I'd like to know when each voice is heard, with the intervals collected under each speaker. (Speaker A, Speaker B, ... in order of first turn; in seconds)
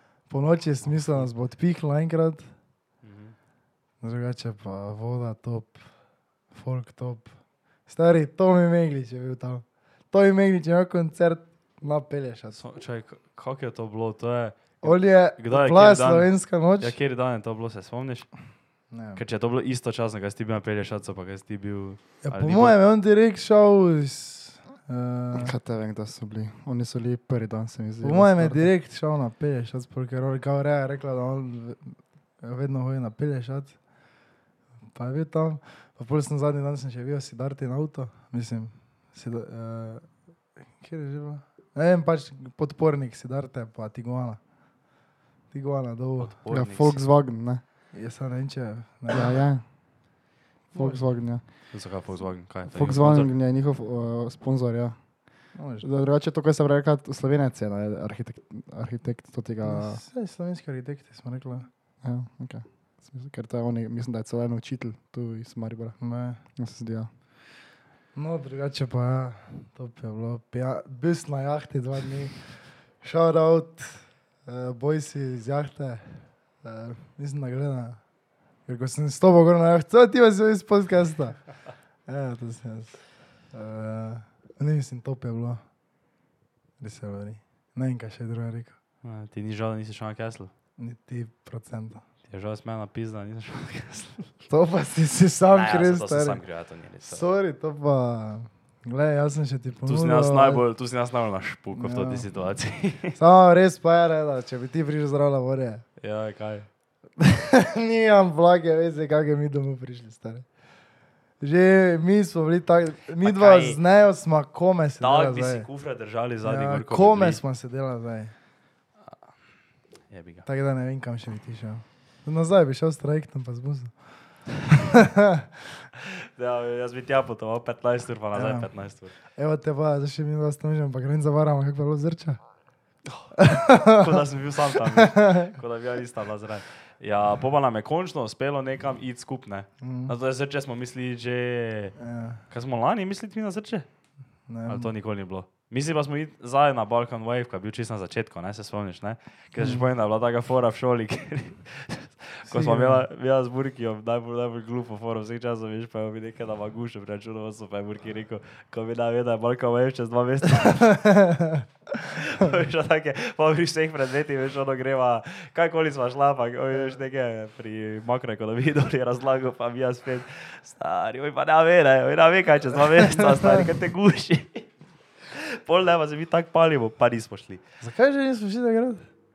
Speaker A: 0.3-2.5, 4.0-5.8, 6.5-7.3, 7.9-12.6, 14.8-16.9, 18.9-19.2, 22.2-25.5, 28.0-33.8, 34.9-40.1, 40.8-44.4, 45.5-46.3, 47.9-49.4, 50.7-51.0, 55.5-55.9, 59.6-61.7, 66.0-66.4, 68.2-78.0, 78.7-81.4, 82.1-83.0, 83.5-85.6, 86.8-88.8, 90.8-92.0, 94.5-96.4, 97.0-100.6, 101.8-102.3, 103.2-105.8, 107.2-110.5, 111.4-115.7, 116.4-118.3, 120.5-124.0, 124.7-125.5, 128.3-132.4, 133.4-134.2, 134.9-135.5, 139.8-140.1, 142.0-142.4, 144.5-144.9, 152.5-153.1, 160.6-161.7, 173.2-173.7, 177.8-179.1
Speaker B: 0.8-1.3, 3.0-3.4, 12.6-18.3, 19.2-22.8, 46.2-47.0, 51.7-53.3, 89.0-90.5, 92.3-94.3, 95.5-97.3, 99.8-103.2, 106.0-106.7, 113.2-113.8, 115.0-117.4, 120.1-120.5, 126.0-129.1, 133.1-142.0, 142.5-143.9, 144.7-161.0, 162.1-174.7, 175.3-177.6
Speaker C: 25.3-28.7, 46.5-47.6, 49.1-49.6, 50.7-51.4, 52.7-55.0, 55.8-60.0, 62.0-66.0, 66.6-67.1, 149.6-149.9